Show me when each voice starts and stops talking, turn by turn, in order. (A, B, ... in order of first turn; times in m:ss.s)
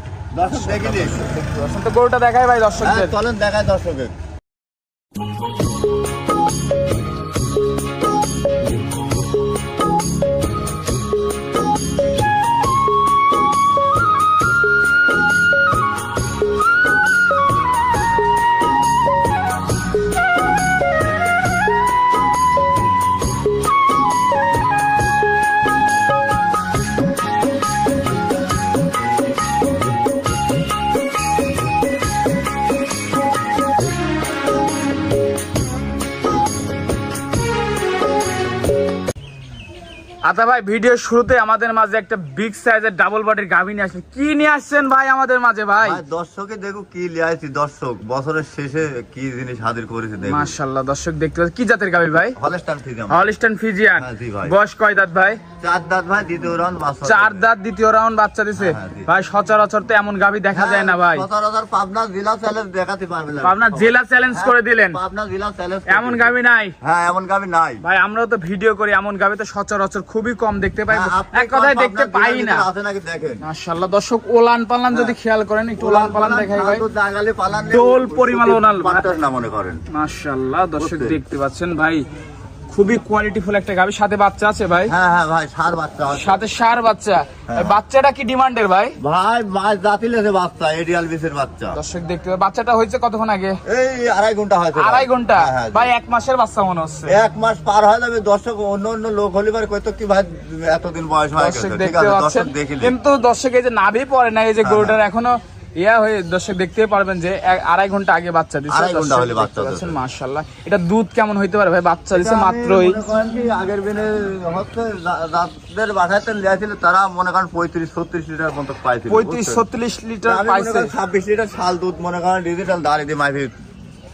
0:00.3-0:01.3 A
0:00.4-0:03.2 B
0:02.8-0:04.1 A
0:40.2-0:46.0 B
0:45.8-0:50.5 A
0:50.2-0:52.4 B
0:52.4-0:53.3 A
0:53.1-0:55.4 B
0:54.0-0:54.6 A
0:55.6-0:57.5 A
0:57.0-1:01.3 B
0:58.6-0:59.1 A
1:00.5-1:07.8 A
1:03.4-1:05.0 B
1:05.9-1:06.8 B
1:07.8-1:12.7 B
1:10.9-1:13.4 A
1:13.4-1:16.9 B
1:14.9-1:15.2 A
1:15.8-1:19.8 A
1:17.7-1:19.1 B
1:19.9-1:22.0 B
1:20.8-1:21.2 A
1:22.7-1:24.9 B
1:24.9-1:26.4 A
1:26.1-1:29.0 B
1:27.5-1:27.8 A
1:29.0-1:31.8 A
1:31.7-1:33.6 B
1:33.7-1:35.9 A
1:34.8-1:37.2 B
1:37.1-1:43.0 A
1:41.3-1:53.0 B
1:44.6-1:45.0 A
1:48.7-1:50.0 A
1:52.1-1:59.6 A
1:59.1-2:00.9 B
2:00.2-2:03.5 A